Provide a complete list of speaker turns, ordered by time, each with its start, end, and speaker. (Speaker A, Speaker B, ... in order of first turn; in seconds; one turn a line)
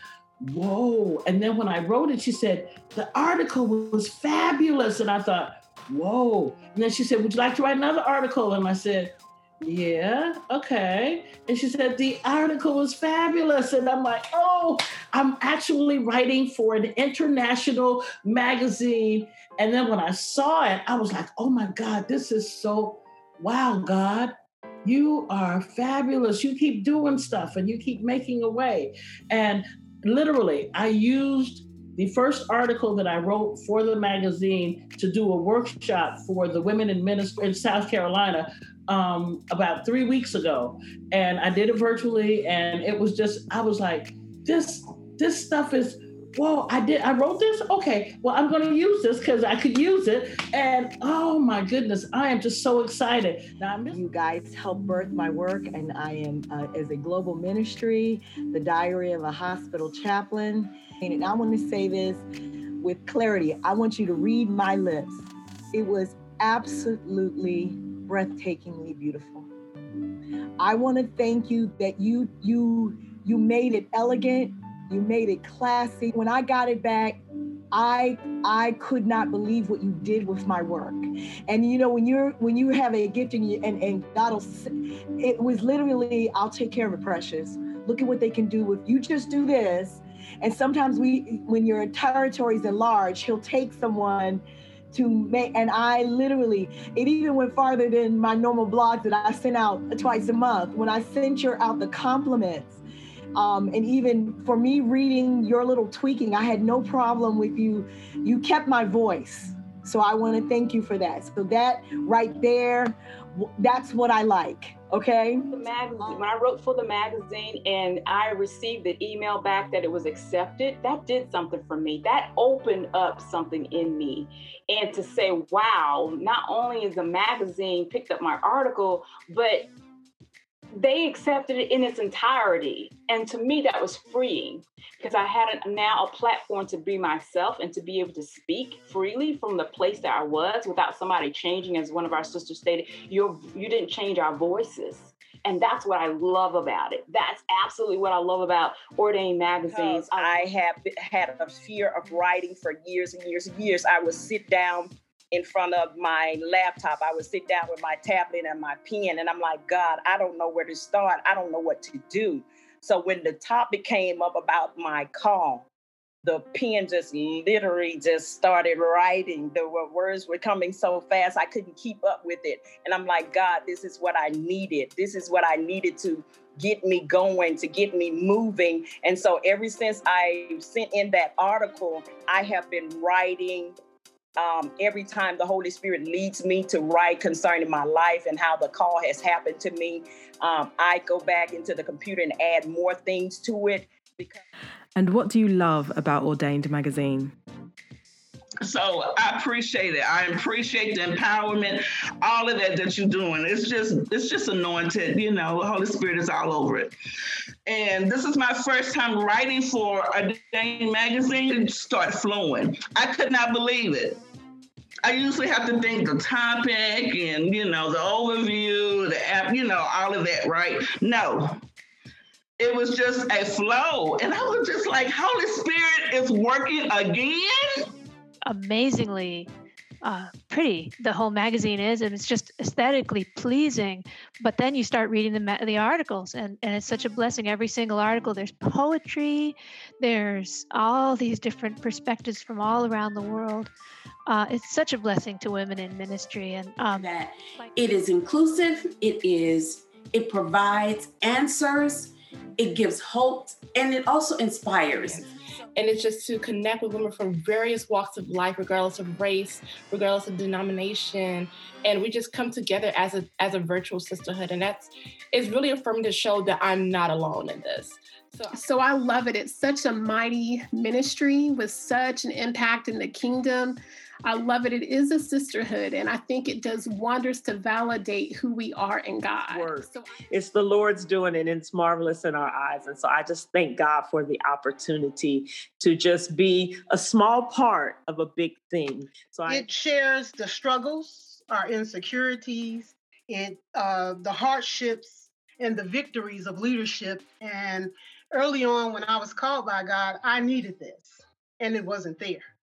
Speaker A: 0.4-9.1
Speaker A: 9.6-24.3
Speaker A: 24.9-54.0
Speaker B: 53.9-62.2
Speaker B: 62.8-69.5
Speaker B: 70.6-77.2
Speaker B: 77.7-102.8
Speaker B: 103.4-116.3
Speaker C: 115.5-129.7
Speaker C: 130.8-150.5
Speaker D: 149.7-165.7
Speaker D: 166.2-183.8
Speaker D: 184.4-194.4
Speaker E: 195.0-197.3
Speaker F: 198.6-206.9
Speaker F: 207.7-214.2
Speaker F: 215.0-221.6
Speaker F: 222.6-227.9
Speaker G: 228.4-229.5
Speaker G: 230.0-243.7
Speaker G: 244.3-247.1
Speaker H: 246.9-255.2
Speaker I: 255.8-268.6
Speaker J: 268.5-280.1
Speaker K: 279.4-289.7
Speaker L: 289.5-302.5